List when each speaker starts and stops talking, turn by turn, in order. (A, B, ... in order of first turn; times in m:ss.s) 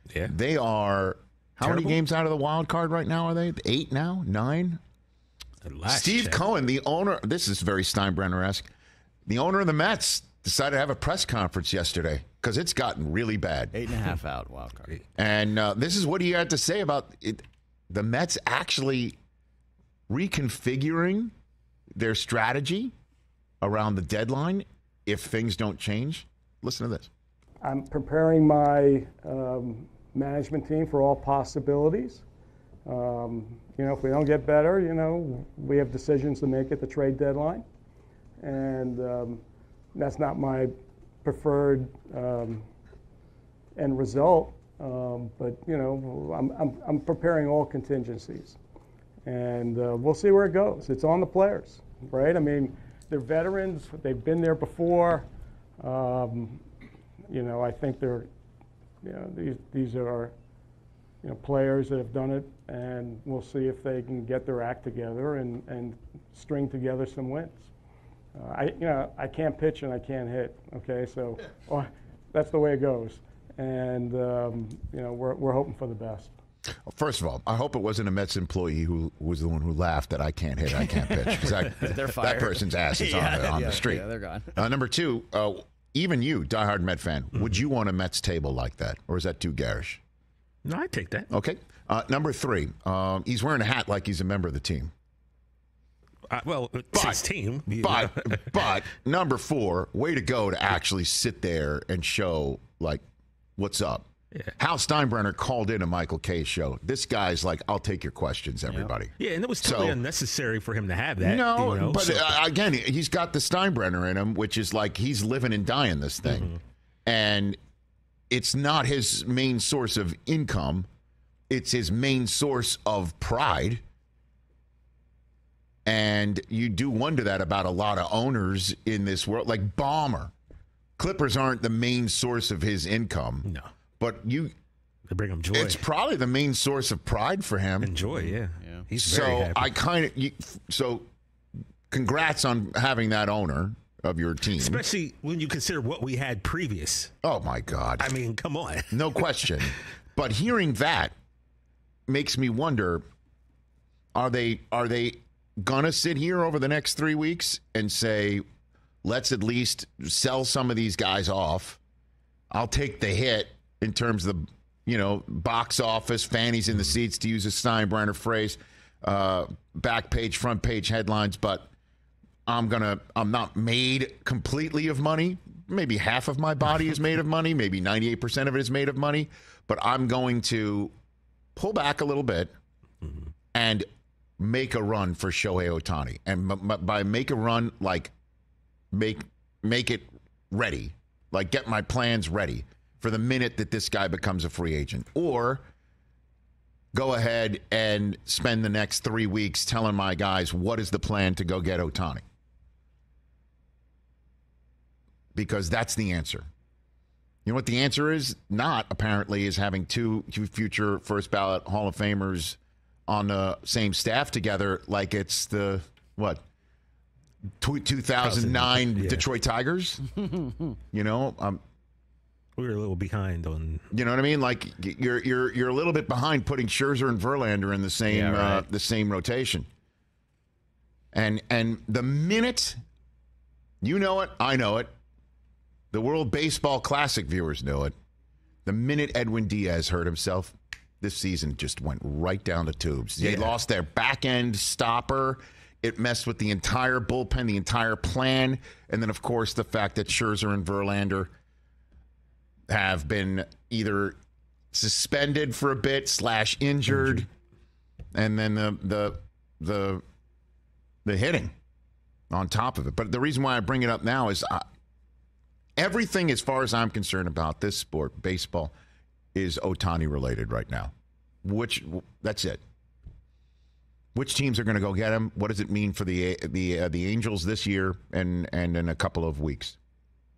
0:00.2-0:04.8 A
0:01.6-0:02.0 B
0:05.6-0:06.4 B
0:05.9-0:08.7 A
0:09.2-0:13.8 A
0:13.7-0:15.0 C
0:15.2-0:19.2 A
0:20.1-0:21.3 A
0:21.9-0:22.9 A
0:23.6-0:27.1 A
0:27.6-0:32.2 D
0:32.8-0:37.6 D
0:38.4-0:39.4 D
0:39.9-0:40.7 D
0:41.2-0:42.7 D
0:43.8-0:48.6 D
0:49.2-0:55.3 D
0:55.8-0:56.6 D
0:57.3-0:58.3 D
0:59.0-1:00.3 D
1:01.2-1:07.7 D
1:08.3-1:16.3 D
1:16.9-1:30.0 A
1:21.2-1:24.6 C
1:30.6-1:31.3 B
1:31.3-1:34.9 A
1:36.3-1:38.6 B
1:36.9-1:43.0 A
1:43.6-1:50.0 A
1:49.2-1:52.4 B
1:51.2-1:57.6 A
1:56.2-1:56.6 B
1:58.3-2:00.9 A
2:01.5-2:03.8 A
2:05.8-2:10.3 A
2:11.0-2:13.5 A
2:14.0-2:14.5 A
2:15.1-2:15.8 B
2:15.5-2:17.9 A
2:17.8-2:19.7 B
2:18.1-2:18.8 C
2:19.0-2:21.1 A
2:21.9-2:24.8 A
2:24.5-2:27.1 B
2:27.2-2:28.1 A
2:28.0-2:29.4 B
2:28.9-2:31.1 A
2:32.1-2:33.0 A
2:34.1-2:38.4 A
2:39.0-2:41.8 A
2:42.5-2:51.7 A
2:52.4-3:00.9 A
3:01.6-3:02.5 A
3:03.5-3:03.8 A
3:04.4-3:08.1 A
3:08.9-3:15.6 A
3:16.9-3:22.2 A
3:25.3-3:26.4 A
3:27.4-3:36.4 A
3:37.6-3:40.1 A
3:38.2-3:39.2 B
3:40.9-3:41.6 A
3:42.6-3:43.9 B
3:43.9-3:49.6 A
3:48.1-3:48.6 C
3:51.1-3:52.8 A
3:53.8-3:54.9 A
3:55.9-3:57.9 A
3:58.6-4:11.3 A
4:03.2-4:03.5 B
4:12.7-4:14.1 A
4:14.7-4:17.3 A
4:18.1-4:20.0 A
4:21.0-4:21.5 A
4:22.3-4:24.6 A
4:25.8-4:28.7 A
4:29.3-4:30.9 A
4:31.4-4:32.6 A
4:34.1-4:39.8 A